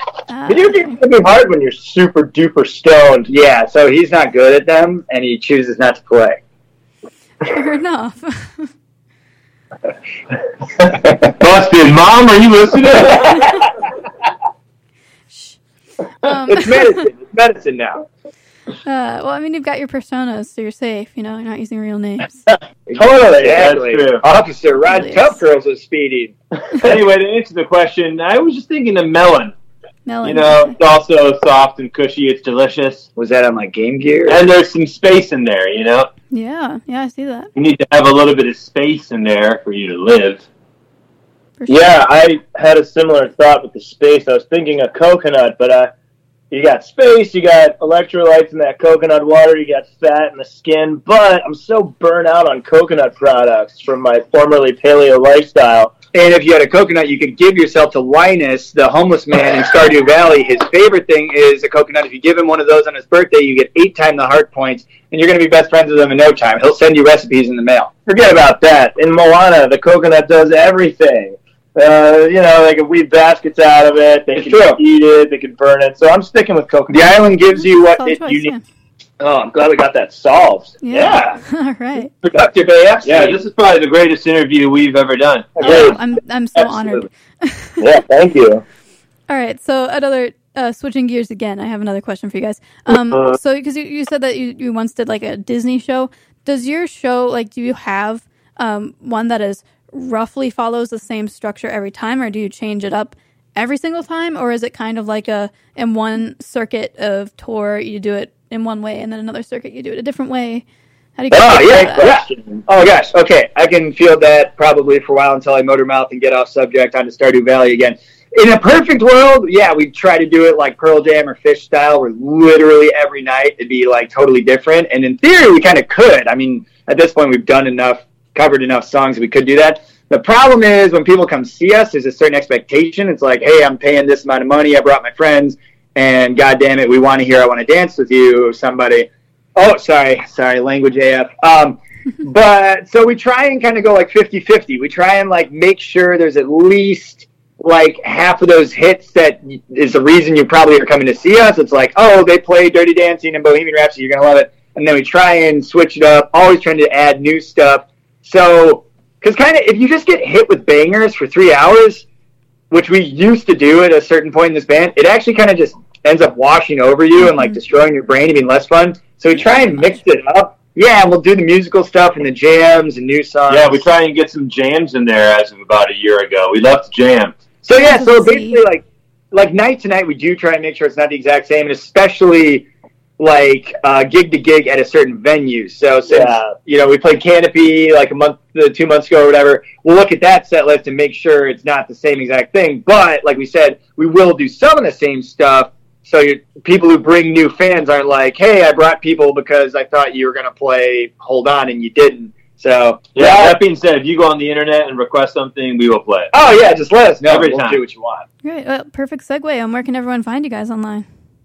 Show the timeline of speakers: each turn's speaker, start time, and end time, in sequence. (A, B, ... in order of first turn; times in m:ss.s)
0:00.3-0:01.0 A
0:00.5-0:03.3 B
0:03.3-0:06.4 C
0:07.4-0:08.7 A
0:11.2-0:13.6 D
0:15.3-0:15.6 A
0:16.2-0:17.0 A
0:16.3-0:18.1 C
0:18.8-0:22.4 A
0:22.9-0:26.3 C
0:22.9-0:23.8 B
0:23.5-0:24.2 D
0:24.8-0:25.4 A
0:26.8-0:29.5 D
0:30.0-0:30.8 A
0:30.2-0:33.1 D
0:33.2-0:34.4 C
0:34.2-0:36.1 D
0:36.3-0:37.5 A
0:37.5-0:40.4 D
0:41.6-0:41.9 A
0:41.7-0:45.9 B
0:46.5-0:55.9 B
0:56.1-1:07.9 C
1:08.1-1:17.1 B
1:14.3-1:14.8 C
1:16.9-1:18.5 C
1:17.6-1:18.6 A
1:19.2-1:21.1 B
1:20.8-1:22.1 A
1:20.9-1:21.4 C
1:22.2-1:22.5 D
1:22.3-1:23.3 C
1:23.0-1:25.9 D
1:23.0-1:23.3 B
1:25.6-1:28.0 A
1:25.6-1:25.9 C
1:25.7-1:25.9 B
1:27.8-1:28.6 B
1:29.3-1:50.6 A
1:51.2-1:52.2 A
1:51.3-2:42.0 C
1:51.7-1:52.6 B
2:42.7-2:53.8 C
2:47.2-2:47.5 A
2:49.3-2:50.0 A
2:53.5-2:57.4 D
2:57.6-3:02.7 C
2:57.7-2:58.6 A
3:03.2-3:23.6 C
3:06.1-3:06.6 B
3:23.1-3:26.3 D
3:26.3-3:28.2 C
3:27.2-3:27.8 D
3:28.4-3:31.0 A